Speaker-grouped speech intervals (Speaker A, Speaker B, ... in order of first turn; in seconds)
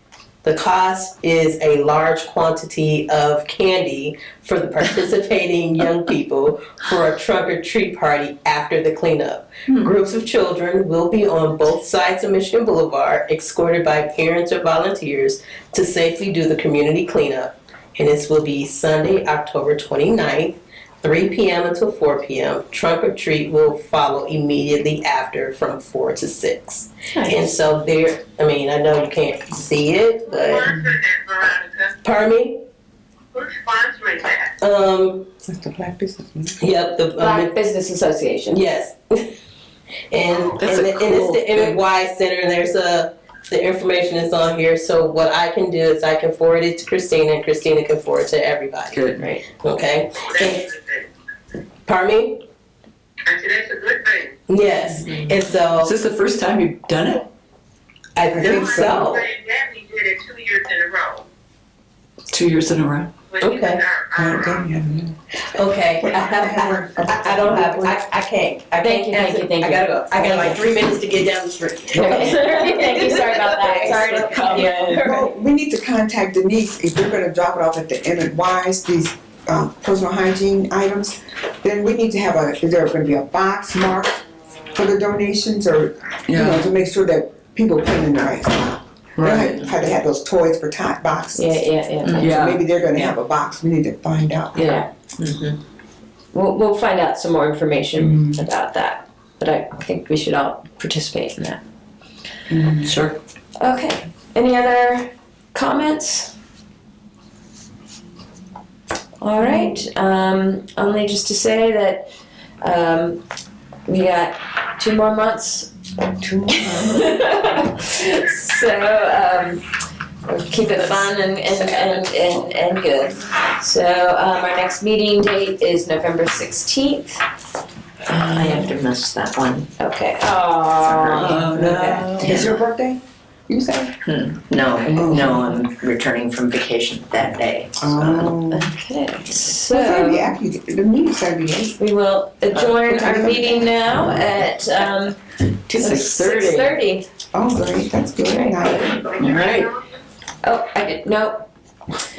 Speaker A: 0.4-30.8, 32.0-32.6, 34.6-35.3, 36.6-37.6, 38.5-39.3, 40.1-50.7, 51.9-52.4, 54.5-55.9, 58.2-59.3, 63.4-63.8, 65.4-75.2
Speaker B: 27.1-27.4, 37.2-38.6, 68.8-70.6, 72.0-75.3, 91.3-92.4, 94.5-94.9, 96.3-101.6, 103.6-106.3, 109.2-112.1, 112.6-113.2, 113.9-115.7, 116.6-119.7, 120.3-127.2, 129.8-132.0, 138.5-140.4, 141.8-147.1, 148.3-149.2, 150.4-151.5
Speaker C: 30.3-31.9, 33.3-34.5, 50.3-51.1, 53.3-54.4, 58.4-61.3, 63.3-64.6, 149.1-149.7
Speaker D: 35.5-36.6, 58.3-59.1, 64.2-65.2, 66.0-68.0, 72.0-72.4, 74.9-84.2, 84.7-91.7, 92.2-94.8, 98.0-98.4, 102.5-103.0, 116.2-117.2, 131.6-133.9, 134.9-135.6, 137.8-138.7, 139.7-141.8, 142.8-144.2, 147.3-149.2
Speaker E: 40.6-41.8, 48.9-49.4, 55.8-57.3, 62.3-63.1, 86.3-86.7, 89.2-89.6, 92.2-92.6, 94.6-94.8, 102.8-103.2, 120.8-122.0, 131.2-132.3, 145.7-146.8, 149.2-149.7
Speaker F: 95.2-95.6, 128.1-129.7, 130.8-131.6, 132.3-132.6, 134.0-138.4, 145.8-146.1